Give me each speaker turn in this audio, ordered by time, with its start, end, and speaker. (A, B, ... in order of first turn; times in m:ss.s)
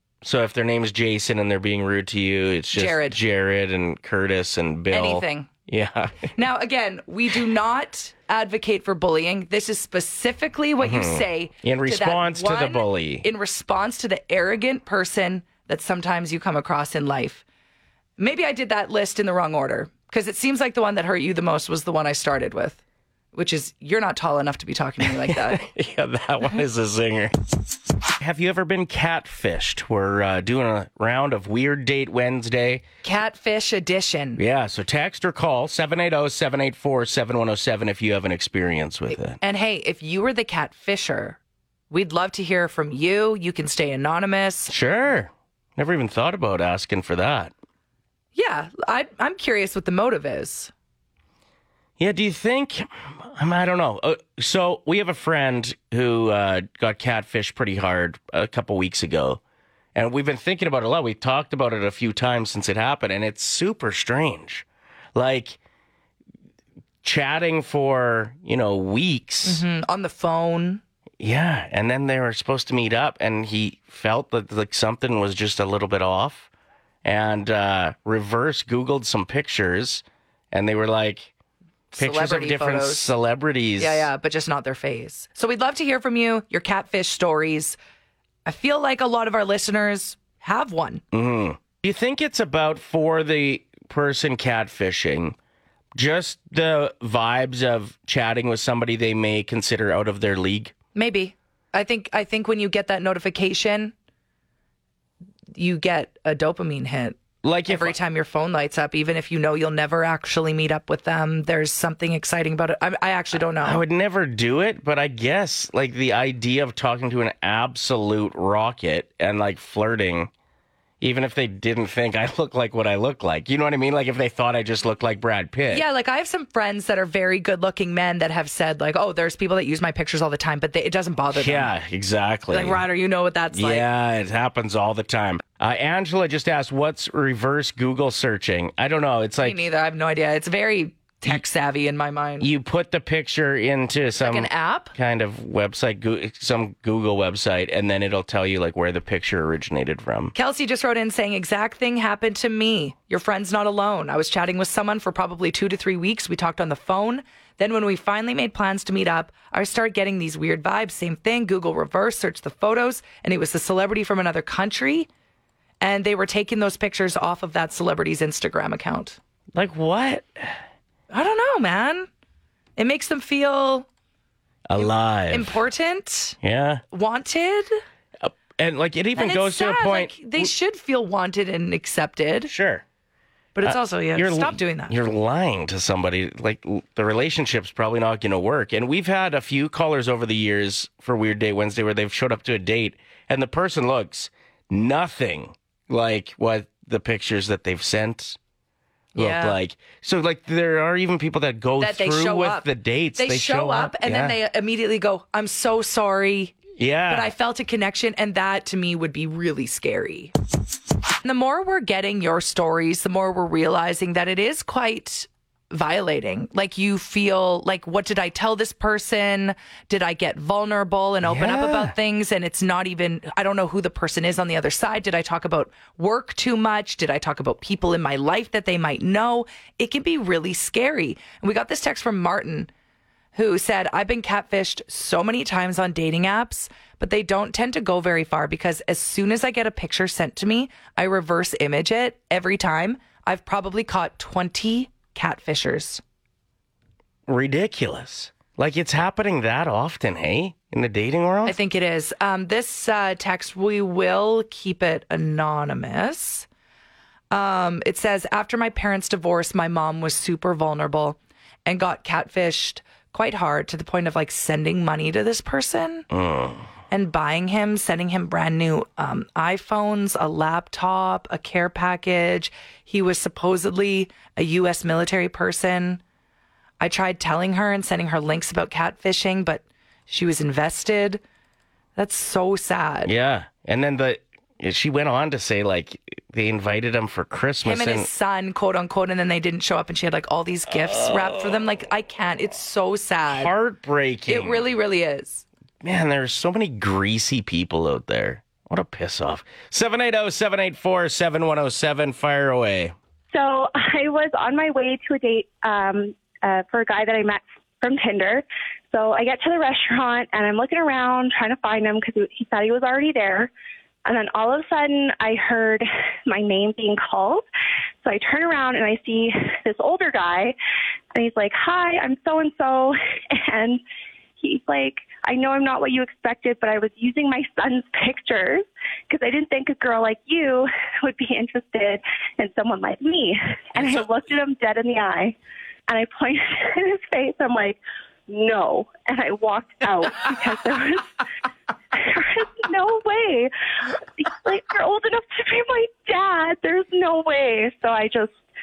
0:00.2-0:06.3 A
0:02.7-0:03.2 B
0:04.9-0:05.5 B
0:06.3-0:17.4 B
0:10.8-0:13.2 A
0:18.2-0:22.8 B
0:23.3-0:25.6 B
0:25.0-0:32.8 A
0:33.0-0:34.4 B
0:34.4-0:39.4 A
0:39.1-0:41.4 B
0:41.9-0:44.7 B
0:44.7-0:47.5 A
0:48.3-0:50.7 B
0:52.0-0:59.4 A
0:59.9-1:05.6 A
1:07.0-1:09.6 A
1:09.4-1:10.8 B
1:11.2-1:16.5 A
1:17.0-1:21.3 A
1:21.9-1:23.1 B
1:22.0-1:24.1 A
1:23.8-1:27.8 B
1:28.4-1:31.0 B
1:31.1-1:35.4 A
1:35.9-1:40.7 A
1:40.9-1:43.9 B
1:45.5-1:53.8 B
1:47.4-1:48.0 A
1:53.6-2:00.3 A
2:01.0-2:05.8 A
2:05.7-2:11.7 B
2:11.3-2:12.8 A
2:12.5-2:13.9 B
2:13.5-2:19.6 A
2:19.4-2:22.5 B
2:22.4-2:30.3 A
2:24.2-2:24.9 B
2:30.3-2:45.1 B
2:45.8-2:49.2 B
2:49.5-2:50.6 A
2:51.1-2:52.1 B
2:52.8-2:53.9 B
2:54.7-2:55.6 A
2:54.8-2:56.4 B
2:56.4-2:56.8 A
2:56.9-2:57.7 B
2:58.2-3:00.5 A
2:59.2-3:02.5 B
3:02.4-3:02.8 A
3:03.5-3:05.0 B
3:03.6-3:18.4 A
3:19.1-3:19.6 B
3:19.1-3:24.4 A
3:21.8-3:26.6 B
3:26.8-3:27.3 A
3:27.1-3:30.3 B
3:31.2-3:52.7 B
3:41.2-3:41.9 A
3:53.3-4:06.0 B
4:07.3-4:11.6 A
4:11.4-4:16.5 B
4:17.3-4:26.1 B
4:26.1-4:26.7 A
4:26.9-4:36.0 B
4:36.8-4:41.2 B
4:42.0-4:43.1 B
4:43.0-4:48.1 A
4:47.6-4:53.5 B
4:50.7-4:51.6 A
4:53.3-4:54.6 A
4:54.3-4:55.4 B
4:55.8-5:02.9 A
5:03.3-5:13.5 C
5:14.0-5:17.4 C
5:18.0-5:20.5 C
5:21.1-5:23.8 C
5:24.4-5:35.3 C
5:35.9-5:41.1 C
5:41.9-5:43.5 C
5:44.2-5:48.3 C